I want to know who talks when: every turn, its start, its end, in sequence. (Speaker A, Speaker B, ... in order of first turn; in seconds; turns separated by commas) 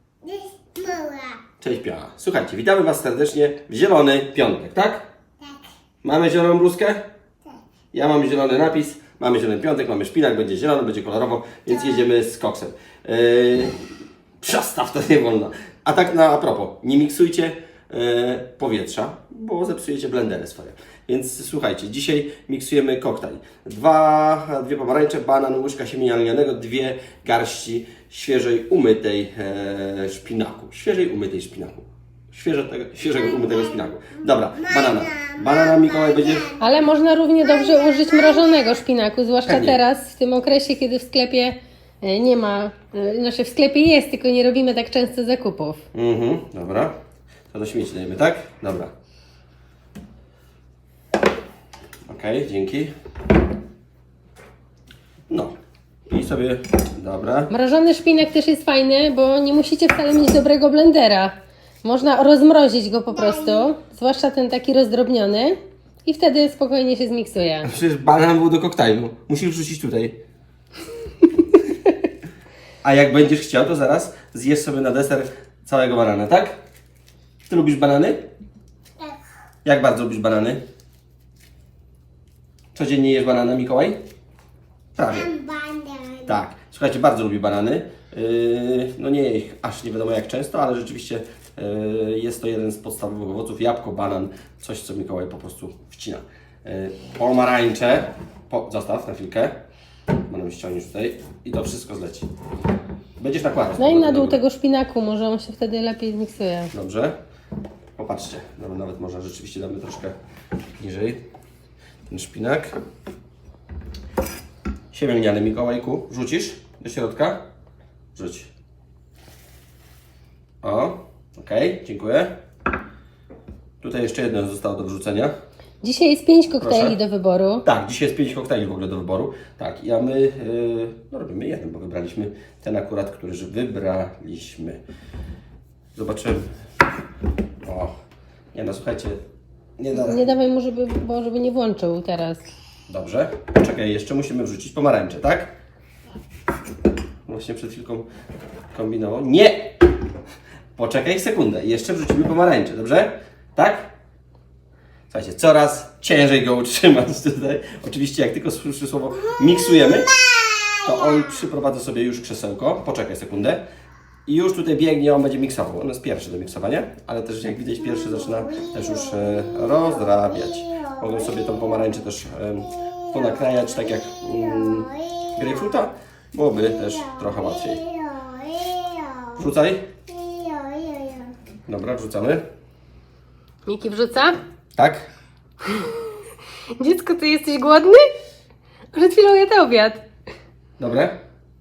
Speaker A: 0.2-1.4, Speaker B: 1.6-5.0, Speaker B: 6.0-7.0, Speaker B: 7.9-13.7, Speaker A: 11.7-12.0, Speaker B: 14.4-36.5, Speaker A: 33.2-33.8, Speaker A: 34.5-36.7, Speaker C: 36.6-45.8, Speaker A: 37.4-38.7, Speaker B: 39.5-39.8, Speaker B: 45.9-46.9, Speaker B: 47.5-48.9, Speaker B: 52.1-52.9, Speaker B: 55.3-55.5, Speaker B: 56.1-57.5, Speaker C: 57.5-67.7, Speaker A: 63.1-63.7, Speaker B: 67.6-70.2, Speaker B: 72.8-76.5, Speaker B: 77.5-78.2, Speaker B: 79.6-80.6, Speaker B: 82.7-84.0, Speaker B: 85.0-85.3, Speaker A: 85.1-86.4, Speaker B: 86.2-99.6, Speaker B: 100.3-102.3, Speaker B: 103.2-104.4, Speaker C: 103.8-106.7, Speaker B: 106.7-107.2, Speaker B: 108.0-110.1, Speaker B: 110.8-111.2, Speaker B: 112.1-112.7, Speaker B: 114.9-117.4, Speaker B: 118.1-118.5, Speaker B: 120.6-122.3, Speaker B: 123.8-125.3, Speaker C: 125.8-127.6, Speaker B: 126.6-127.0, Speaker B: 127.6-134.8, Speaker B: 135.9-136.5, Speaker B: 137.6-137.9, Speaker B: 138.5-139.2, Speaker B: 139.8-140.3, Speaker C: 139.9-142.4, Speaker B: 142.9-145.5, Speaker B: 147.3-148.1, Speaker B: 148.7-149.8, Speaker B: 150.7-153.9, Speaker B: 155.1-160.2, Speaker A: 159.7-161.3, Speaker B: 160.8-163.6, Speaker B: 164.2-177.8, Speaker A: 168.0-171.8, Speaker A: 172.8-175.6, Speaker A: 176.7-179.4, Speaker B: 179.3-179.9, Speaker A: 180.1-181.3, Speaker B: 181.7-182.4, Speaker C: 183.7-184.4, Speaker B: 184.8-185.1, Speaker C: 185.6-186.1, Speaker C: 186.7-188.1, Speaker C: 188.9-190.0, Speaker B: 190.8-191.2